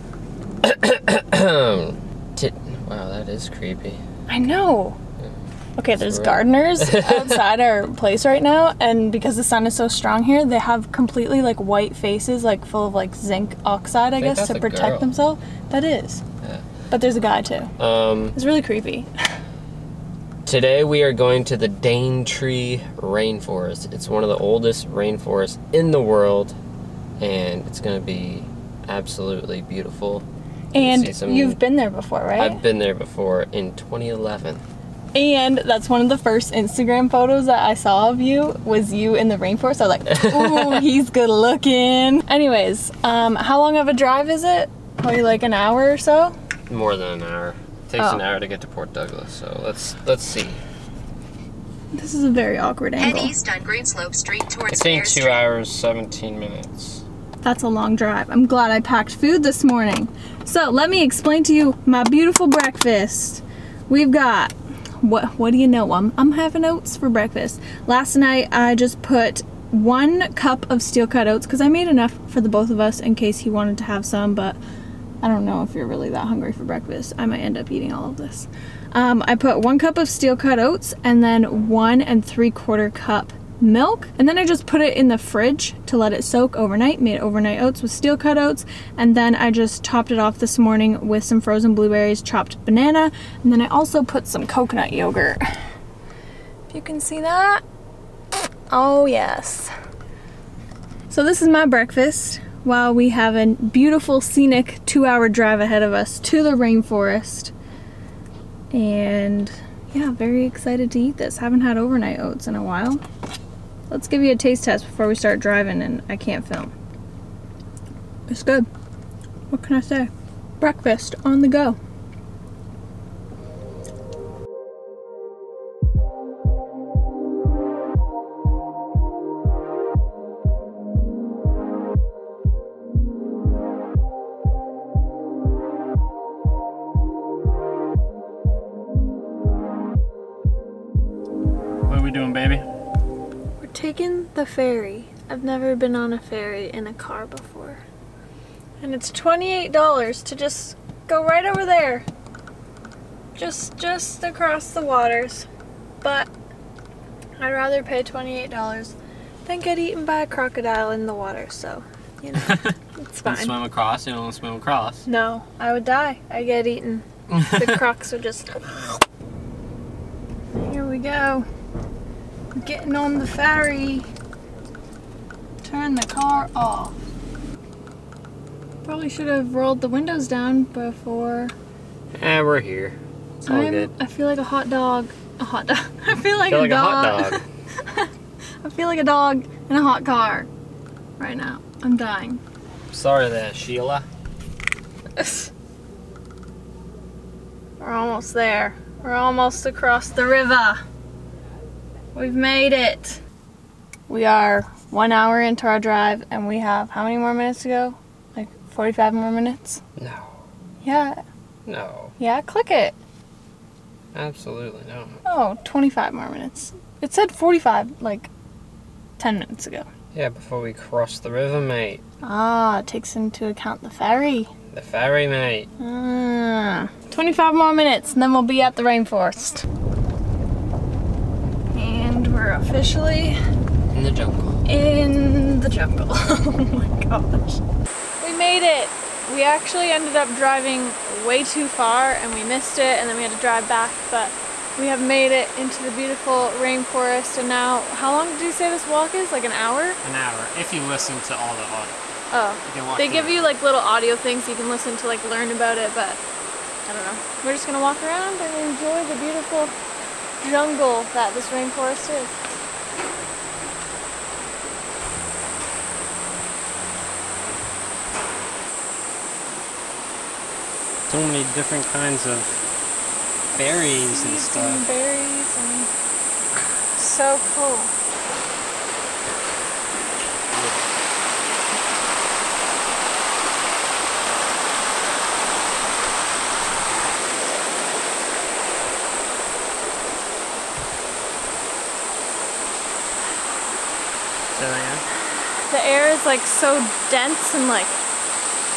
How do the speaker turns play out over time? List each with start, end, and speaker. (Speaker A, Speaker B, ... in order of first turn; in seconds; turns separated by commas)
Speaker A: 0.6-4.0, Speaker B: 4.3-5.0, Speaker B: 5.8-16.2, Speaker A: 6.0-7.4, Speaker A: 14.2-15.1, Speaker B: 16.9-17.7, Speaker A: 17.8-18.4, Speaker B: 18.3-19.1, Speaker A: 20.4-26.6, Speaker A: 27.2-31.6, Speaker B: 30.7-32.6, Speaker A: 32.4-34.6, Speaker B: 35.1-46.3, Speaker A: 40.2-40.8, Speaker A: 46.7-50.6, Speaker B: 48.0-48.2, Speaker B: 51.9-53.4, Speaker C: 53.0-55.4, Speaker A: 54.7-57.0, Speaker B: 57.4-74.6, Speaker B: 75.2-95.4, Speaker B: 96.7-97.6, Speaker B: 98.7-99.7, Speaker B: 101.1-107.5, Speaker B: 108.7-113.0, Speaker B: 113.9-116.7, Speaker B: 118.3-118.7, Speaker B: 119.5-121.8, Speaker A: 141.9-142.7, Speaker B: 143.6-147.8, Speaker B: 148.8-152.1, Speaker B: 153.3-155.5, Speaker B: 156.0-156.3, Speaker B: 157.4-163.6, Speaker A: 162.4-165.1, Speaker B: 165.1-168.8, Speaker A: 167.4-167.7, Speaker B: 170.6-171.4, Speaker B: 172.5-174.1, Speaker B: 175.6-177.0, Speaker B: 178.8-181.5, Speaker A: 182.2-183.9, Speaker B: 183.4-188.1, Speaker A: 186.4-187.4, Speaker B: 188.6-190.5, Speaker B: 191.2-192.4, Speaker A: 192.9-194.1, Speaker B: 195.2-195.5, Speaker B: 197.8-200.8, Speaker B: 202.1-203.2, Speaker B: 204.1-209.8, Speaker A: 210.0-210.3, Speaker B: 210.8-211.2, Speaker A: 211.7-212.2, Speaker B: 212.2-212.9, Speaker A: 214.1-215.2, Speaker B: 215.2-218.3, Speaker B: 219.2-219.9, Speaker A: 220.1-222.0, Speaker B: 222.2-224.5, Speaker A: 224.7-225.7, Speaker B: 225.8-229.7, Speaker B: 231.7-233.4, Speaker A: 233.9-234.7, Speaker B: 234.7-237.6, Speaker B: 238.2-250.0, Speaker A: 250.0-252.0, Speaker B: 252.3-256.2, Speaker A: 252.7-253.4, Speaker B: 256.9-259.7, Speaker B: 260.4-262.3, Speaker A: 271.1-272.6, Speaker A: 273.5-274.8, Speaker B: 273.6-275.9, Speaker B: 277.0-277.9, Speaker A: 280.5-280.9, Speaker A: 294.5-295.0, Speaker B: 295.7-298.0